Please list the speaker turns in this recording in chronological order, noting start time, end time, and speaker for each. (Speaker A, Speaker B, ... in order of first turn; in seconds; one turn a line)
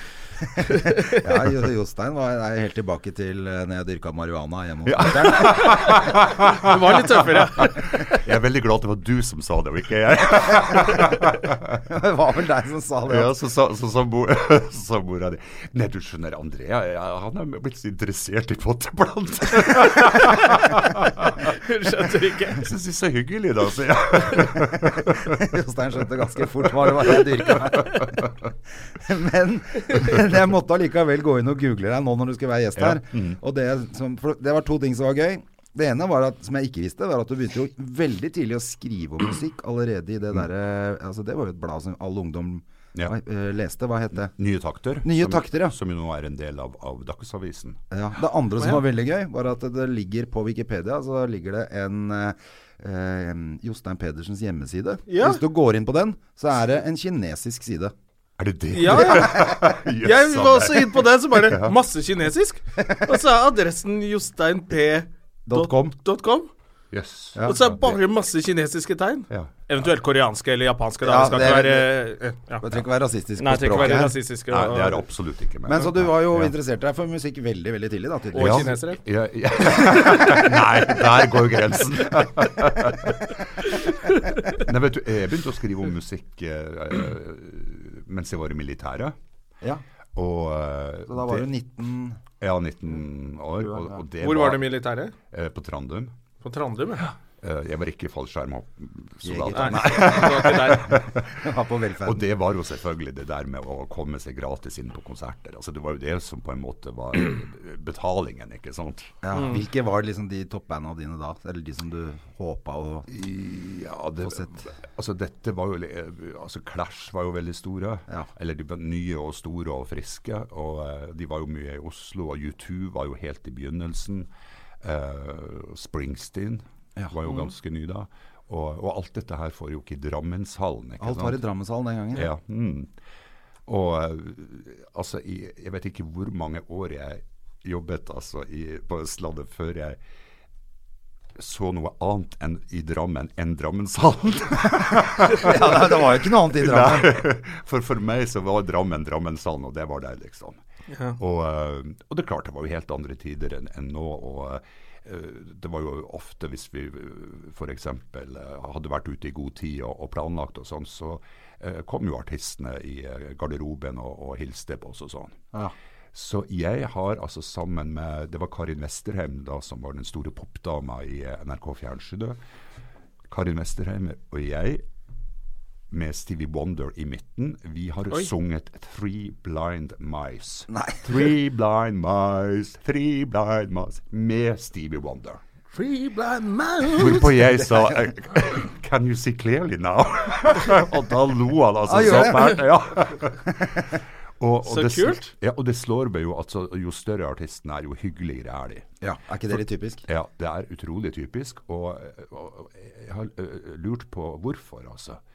Speaker A: 0.7-1.2
Speaker B: 1.0-6.0
Speaker C: 4.8-11.8
Speaker A: 6.6-8.0
Speaker B: 11.8-13.3
Speaker C: 13.1-21.5
Speaker A: 20.2-20.6
Speaker A: 21.4-22.6
Speaker C: 22.5-25.5
Speaker B: 25.1-28.3
Speaker C: 26.8-28.4
Speaker B: 28.9-44.3
Speaker C: 32.8-33.4
Speaker C: 44.2-47.8
Speaker B: 45.0-45.7
Speaker B: 47.9-57.9
Speaker A: 55.1-55.4
Speaker C: 58.4-61.8
Speaker A: 58.7-66.5
Speaker B: 65.5-66.0
Speaker C: 66.9-68.0
Speaker B: 67.3-67.6
Speaker A: 67.4-72.7
Speaker C: 69.3-69.6
Speaker B: 71.0-72.0
Speaker B: 72.6-74.1
Speaker A: 73.4-75.0
Speaker C: 74.5-76.5
Speaker B: 75.7-78.7
Speaker A: 78.3-79.0
Speaker C: 78.4-89.2
Speaker C: 90.2-91.5
Speaker B: 91.1-92.2
Speaker C: 92.4-94.7
Speaker B: 93.6-94.0
Speaker A: 94.2-95.1
Speaker C: 95.3-96.1
Speaker A: 96.4-97.1
Speaker C: 97.4-101.5
Speaker B: 99.2-102.2
Speaker A: 99.5-101.0
Speaker C: 102.0-109.2
Speaker B: 109.2-113.1
Speaker A: 109.3-109.6
Speaker C: 113.1-124.3
Speaker C: 124.8-131.4
Speaker B: 131.0-132.3
Speaker C: 132.1-132.9
Speaker C: 133.7-140.0
Speaker C: 141.4-150.6
Speaker B: 145.2-147.2
Speaker A: 150.9-151.2
Speaker C: 151.2-165.4
Speaker C: 166.1-172.4
Speaker C: 173.3-174.8
Speaker C: 175.9-185.4
Speaker B: 180.7-181.2
Speaker A: 185.7-187.4
Speaker C: 186.9-198.9
Speaker B: 191.8-192.6
Speaker A: 194.6-195.3
Speaker B: 199.0-200.0
Speaker C: 199.5-205.2